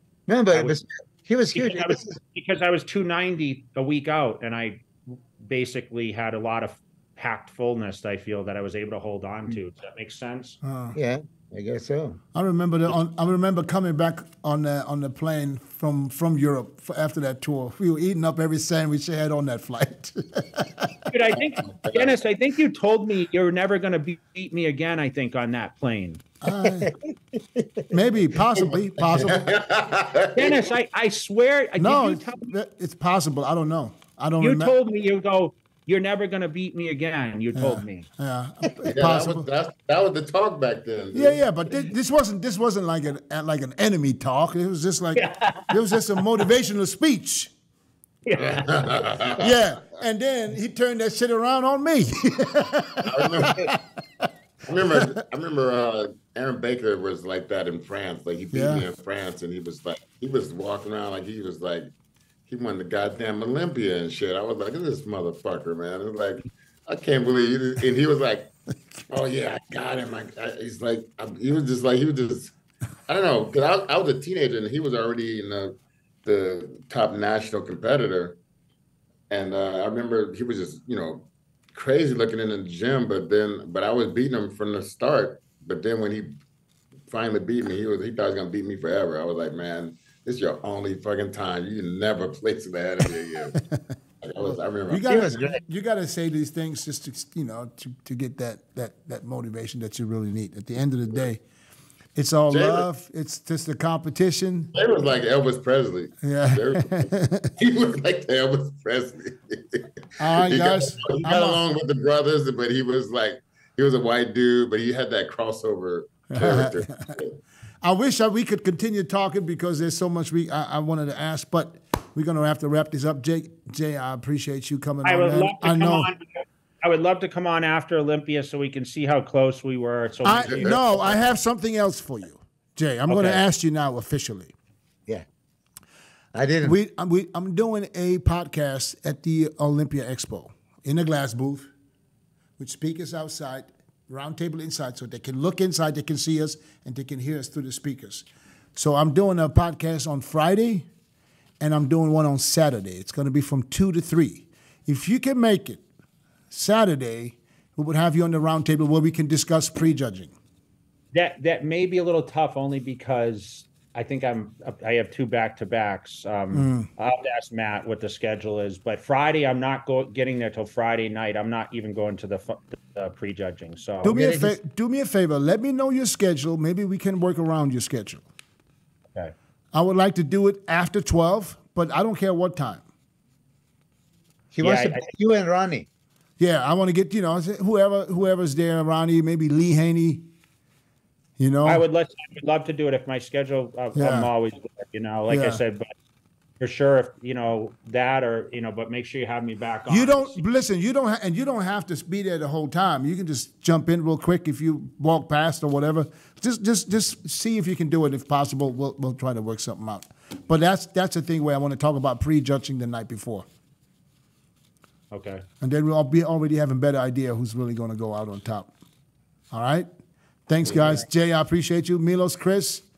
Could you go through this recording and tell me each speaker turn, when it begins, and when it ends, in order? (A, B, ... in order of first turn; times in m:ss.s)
0:00.3-0:02.1 A
0:00.5-0:00.8 B
0:01.5-0:10.6 B
0:10.6-0:11.0 C
0:10.9-0:12.2 A
0:12.3-0:20.9 C
0:21.1-0:26.2 B
0:21.5-0:22.2 D
0:26.4-0:26.9 C
0:26.6-0:27.9 A
0:27.9-0:29.5 C
0:28.5-0:30.7 D
0:30.3-0:32.5 B
0:31.8-0:34.7 C
0:34.4-0:38.1 B
0:37.5-0:39.5 C
0:38.9-0:41.5 D
0:41.1-0:47.5 C
0:45.2-0:46.0 B
0:48.2-0:48.9 B
0:48.4-0:49.6 D
0:49.4-0:53.8 C
0:53.0-0:53.7 D
0:54.7-1:01.9 D
0:58.5-0:58.8 C
1:02.5-1:08.5 D
1:09.1-1:12.5 D
1:13.1-1:18.4 D
1:19.3-1:26.4 D
1:27.1-1:33.6 D
1:33.5-1:33.8 C
1:34.2-1:35.2 D
1:34.9-1:41.4 C
1:35.0-1:35.6 A
1:42.1-1:44.7 C
1:42.5-1:42.9 D
1:44.7-1:57.4 D
1:46.2-1:47.5 C
1:50.2-1:51.6 C
1:56.3-1:57.1 C
1:57.8-2:06.1 C
2:05.0-2:11.0 B
2:10.2-2:14.5 C
2:10.3-2:11.2 D
2:13.1-2:13.4 B
2:16.3-2:16.8 A
2:16.6-2:21.7 C
2:22.6-2:30.9 C
2:31.6-2:35.8 C
2:36.5-2:40.3 C
2:41.1-2:54.2 B
2:46.5-2:46.9 C
2:54.0-2:58.2 C
2:54.0-2:54.6 A
2:59.7-3:02.8 C
3:04.5-3:05.9 A
3:04.6-3:05.1 B
3:06.4-3:10.3 C
3:11.4-3:11.8 C
3:11.6-3:15.9 B
3:14.0-3:14.3 C
3:15.3-3:15.6 C
3:16.6-3:20.4 B
3:19.9-3:33.4 C
3:35.1-3:35.4 B
3:35.6-3:38.7 C
3:39.5-3:39.9 C
3:40.5-3:42.8 C
3:40.6-3:40.9 D